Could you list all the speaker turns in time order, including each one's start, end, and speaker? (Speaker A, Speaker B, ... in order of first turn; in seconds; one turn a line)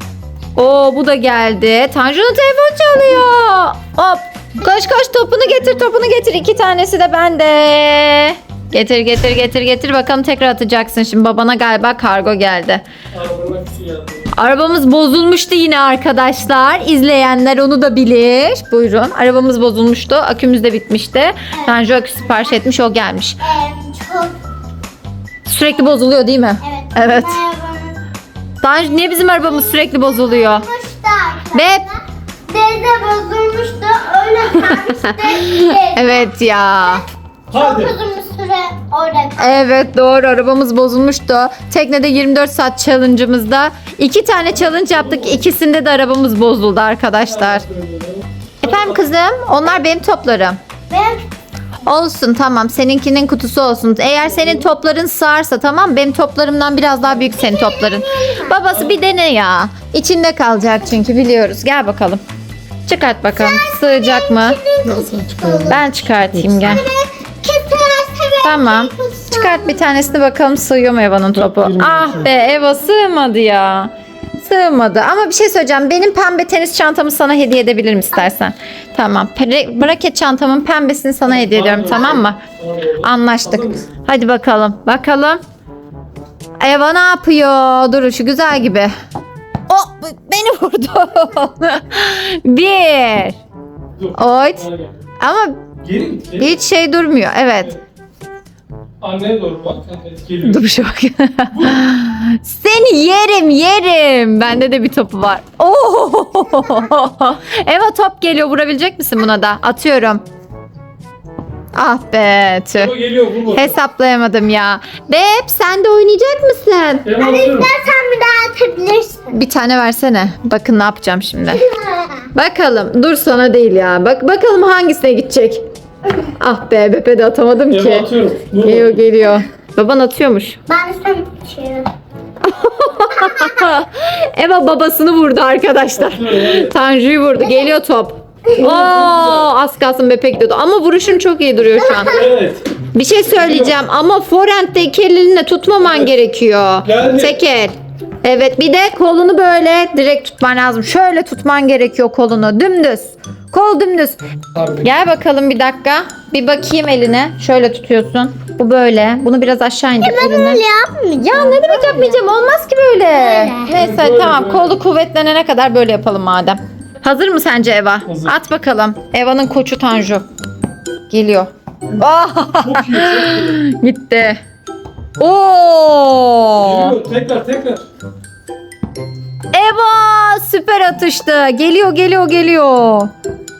Speaker A: 0.6-12.8
Speaker B: 13.1-14.3
Speaker A: 14.3-23.4
Speaker C: 23.4-24.4
Speaker A: 25.4-27.4
Speaker C: 26.6-28.0
Speaker A: 28.6-30.6
Speaker C: 29.3-36.3
Speaker A: 31.5-31.8
Speaker A: 34.6-37.0
Speaker B: 37.5-38.0
Speaker C: 37.5-39.5
Speaker A: 39.4-47.6
Speaker B: 44.6-45.4
Speaker B: 47.3-49.0
Speaker A: 48.6-50.6
Speaker C: 50.9-51.2
Speaker A: 51.8-62.2
Speaker C: 57.3-58.6
Speaker A: 62.9-64.6
Speaker C: 63.3-65.8
Speaker B: 64.8-65.8
Speaker A: 65.7-66.8
Speaker C: 66.6-69.8
Speaker A: 68.4-82.4
Speaker B: 71.3-72.3
Speaker B: 81.2-83.9
Speaker A: 83.0-85.4
Speaker A: 86.6-88.9
Speaker A: 89.7-93.4
Speaker B: 94.0-95.0
Speaker A: 94.1-94.6
Speaker A: 95.2-95.6
Speaker B: 95.8-96.5
Speaker A: 96.4-97.7
Speaker B: 99.0-100.7
Speaker A: 100.4-110.2
Speaker B: 101.5-101.8
Speaker A: 111.7-112.9
Speaker B: 112.8-113.7
Speaker A: 113.5-117.1
Speaker B: 117.0-117.7
Speaker C: 117.2-119.3
Speaker A: 119.3-121.6
Speaker C: 121.5-122.2
Speaker A: 122.3-125.6
Speaker A: 126.3-130.6
Speaker B: 127.7-129.0
Speaker C: 130.7-131.9
Speaker A: 132.4-142.2
Speaker C: 133.2-133.7
Speaker B: 136.0-136.7
Speaker B: 138.6-139.4
Speaker B: 142.1-142.7
Speaker A: 142.9-154.2
Speaker B: 143.4-143.7
Speaker B: 146.8-147.3
Speaker B: 154.5-154.9
Speaker A: 154.8-160.6
Speaker C: 160.0-162.2
Speaker A: 161.2-170.2
Speaker C: 163.1-163.7
Speaker B: 163.7-164.8
Speaker B: 168.1-168.3
Speaker A: 171.1-174.4
Speaker B: 172.6-173.6
Speaker A: 175.2-177.0
Speaker B: 176.6-177.8
Speaker A: 179.5-183.1